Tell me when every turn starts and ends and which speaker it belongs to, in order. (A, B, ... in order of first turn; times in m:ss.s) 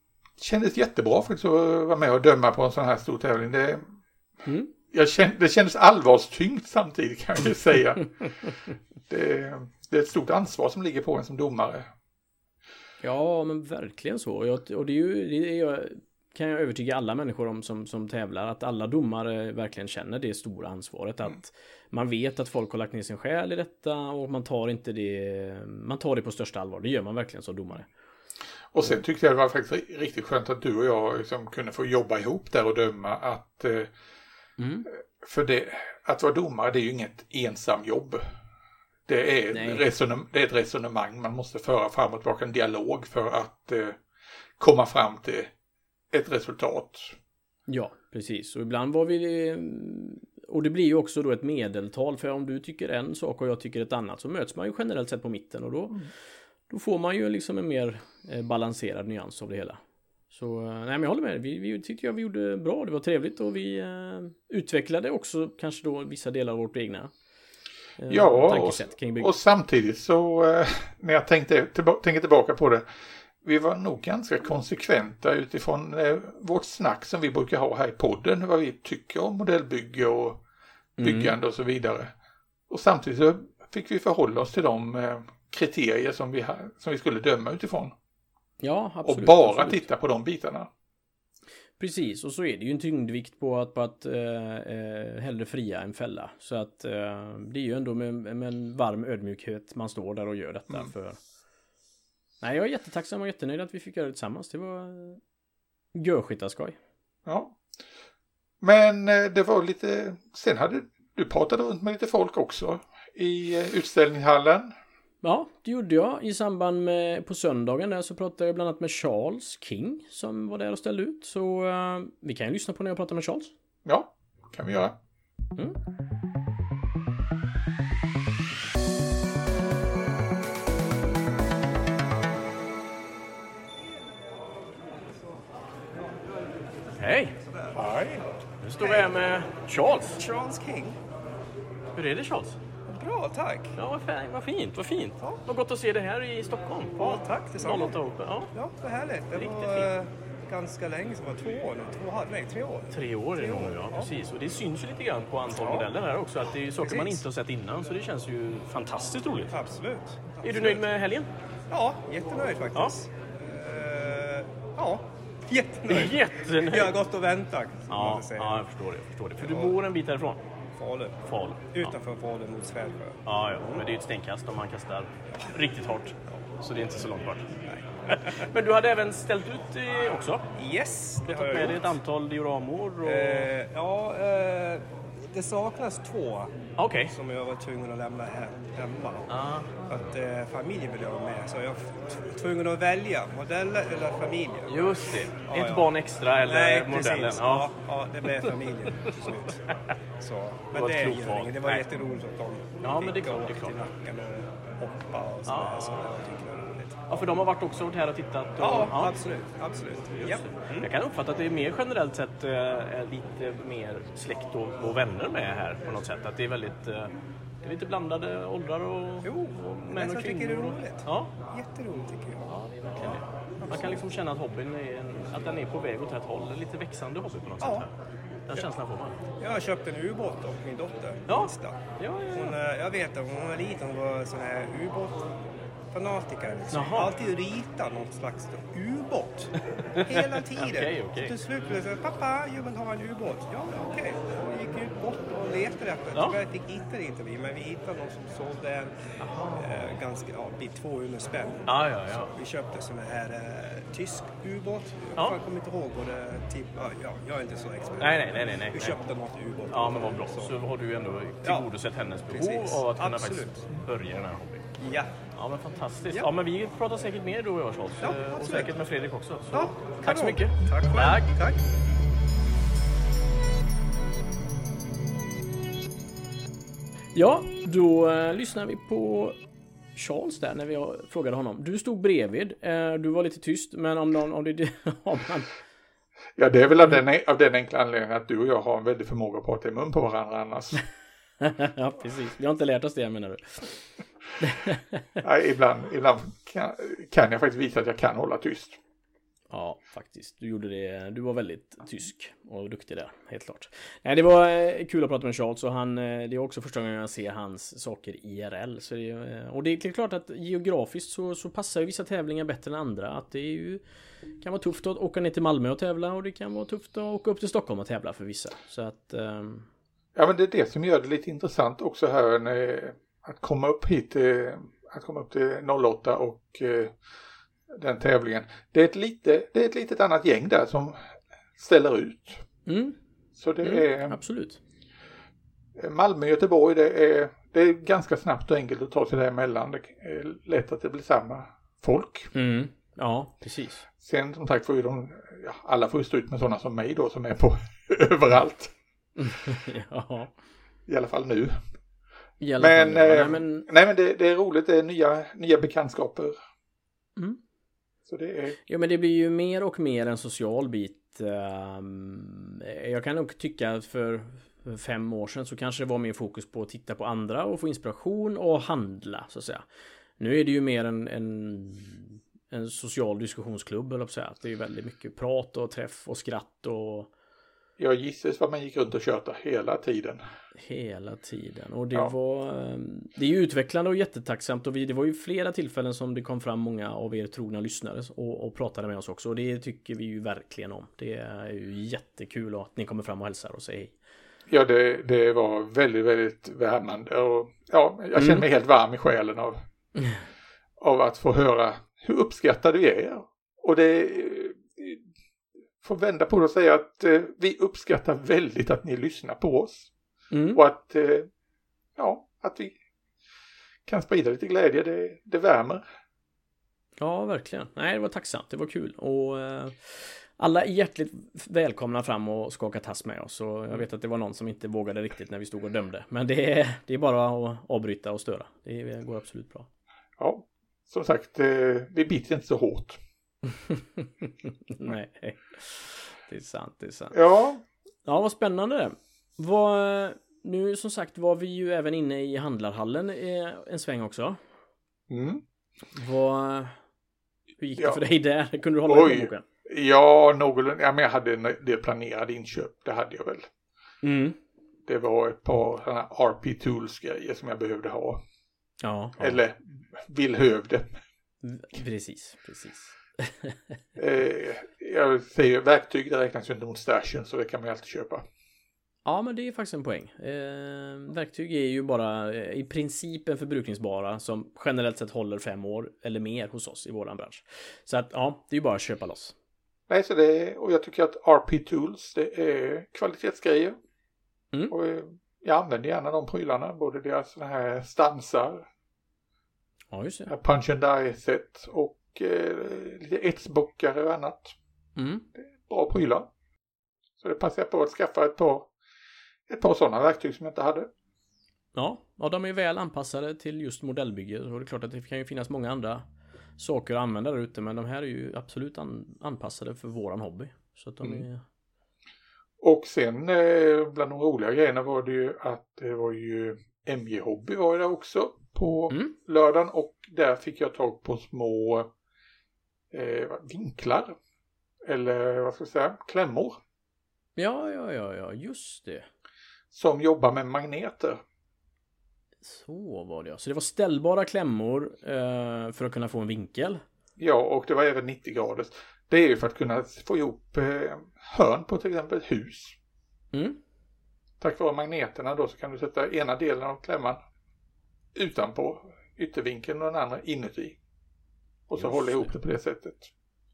0:00.4-0:03.8 A
0:04.9-0:08.3 A
0:09.1-0:11.9 A
0:13.0-0:27.9 B
0:28.7-0:33.9 A
0:34.6-0:34.9 B
0:35.2-0:38.2 A
0:39.1-0:44.0 A
0:39.5-0:39.8 B
0:44.6-0:45.5 A
0:46.1-0:47.1 A
0:47.7-0:56.0 B
0:56.7-1:07.1 B
1:08.0-1:09.3 B
1:08.1-1:12.8 A
1:13.4-1:20.4 A
1:21.0-1:21.3 B
1:21.0-1:22.1 A
1:22.7-1:27.9 A
1:28.6-1:29.8 B
1:29.0-1:30.7 A
1:31.8-1:41.2 B
1:42.4-1:45.2 B
1:45.9-1:46.8 B
1:47.2-1:47.6 A
1:48.6-1:54.7 A
1:55.2-2:03.5 B
2:03.8-2:05.0 A
2:17.0-2:17.3 B
2:17.6-2:18.2 C
2:18.6-2:20.2 B
2:18.8-2:19.1 C
2:20.1-2:21.0 C
2:21.9-2:22.6 B
2:22.9-2:23.7 C
2:23.8-2:28.5 B
2:27.0-2:28.0 C
2:28.5-2:34.1 C
2:29.3-2:29.9 B
2:32.9-2:39.5 B
2:35.5-2:35.9 C
2:36.8-2:37.2 C
2:39.5-2:40.8 C
2:40.4-2:41.3 B
2:41.7-2:48.7 C
2:45.9-2:47.0 B
2:47.9-2:50.4 B
2:49.4-2:49.8 C
2:50.8-2:53.8 C
2:51.2-2:52.0 B
2:53.2-2:57.4 B
2:57.7-2:58.3 C
2:58.1-3:00.4 B
3:00.5-3:02.0 C
3:01.2-3:03.5 B
3:03.0-3:09.3 C
3:06.8-3:07.1 B
3:09.3-3:09.7 B
3:09.9-3:19.6 C
3:14.7-3:17.7 B
3:20.2-3:27.0 C
3:20.7-3:22.2 B
3:22.8-3:23.8 B
3:25.4-3:26.1 B
3:27.1-3:29.2 B
3:28.6-3:30.9 C
3:30.2-3:37.1 B
3:37.6-3:41.3 B
3:39.2-3:42.5 C
3:42.5-3:47.9 B
3:43.1-3:44.0 C
3:47.6-3:47.9 C
3:48.5-3:49.2 B
3:49.4-3:51.8 C
3:51.3-3:52.6 B
3:52.3-3:55.2 C
3:55.9-4:08.9 C
3:56.7-3:57.1 B
3:59.9-4:01.3 B
4:09.2-4:09.9 B
4:09.6-4:20.5 C
4:11.7-4:12.3 B
4:18.0-4:19.0 B
4:19.7-4:24.6 B
4:22.3-4:23.7 C
4:24.8-4:25.1 C
4:25.4-4:31.3 B
4:28.0-4:28.7 C
4:29.5-4:31.6 C
4:37.1-4:39.4 B
4:39.9-4:45.5 B
4:46.4-4:50.8 A
4:51.4-4:53.8 B
4:54.4-4:55.0 B
4:55.2-4:58.8 A
4:59.5-5:13.8 B
5:14.4-5:19.7 B
5:20.2-5:26.9 A
5:27.7-5:31.0 A
5:31.6-5:32.4 A
5:32.6-5:33.0 B
5:33.4-5:34.2 A
5:33.6-5:34.6 B
5:35.8-5:42.3 A
5:42.3-5:43.8 B
5:44.0-5:48.7 A
5:49.2-5:50.3 B
5:50.9-5:51.6 A
5:52.4-5:53.6 B
5:52.6-5:56.4 A
5:58.1-5:58.6 A
5:58.7-6:09.6 B
6:10.2-6:17.1 B
6:17.8-6:20.2 A
6:20.6-6:34.0 B
6:34.5-6:39.6 A
6:38.1-6:38.4 B
6:40.8-6:45.0 A
6:45.8-6:49.9 A
6:50.3-6:50.6 B
6:50.5-6:51.3 A
6:52.0-6:52.8 A
6:53.8-6:55.8 A
6:57.0-7:09.7 B
7:10.2-7:13.0 A
7:13.7-7:17.2 B
7:17.1-7:17.6 A
7:18.0-7:24.4 B
7:25.1-7:25.4 A
7:26.0-7:26.8 B
7:27.6-7:29.4 B
7:28.8-7:33.5 A
7:34.0-7:34.4 B
7:34.8-7:38.2 A
7:38.8-7:39.4 B
7:39.2-7:40.9 A
7:41.4-7:43.5 B
7:44.0-7:48.2 A
7:49.0-7:59.3 B
7:59.9-8:03.8 A
8:04.7-8:08.6 A
8:09.9-8:10.3 B
8:10.3-8:14.5 A
8:15.0-8:15.2 B
8:15.4-8:16.3 A
8:17.2-8:18.7 A
8:19.5-8:20.9 A
8:21.7-8:26.0 B
8:26.6-8:31.4 B
8:32.6-8:41.9 A
8:42.9-8:44.1 A
8:44.8-8:46.6 A
8:47.4-8:49.1 B
8:49.7-8:51.2 A
8:52.4-8:56.8 B
8:57.2-9:02.7 A
9:03.3-9:03.6 B
9:04.4-9:07.2 A
9:08.2-9:10.8 A
9:11.7-9:13.1 A
9:11.8-9:12.3 B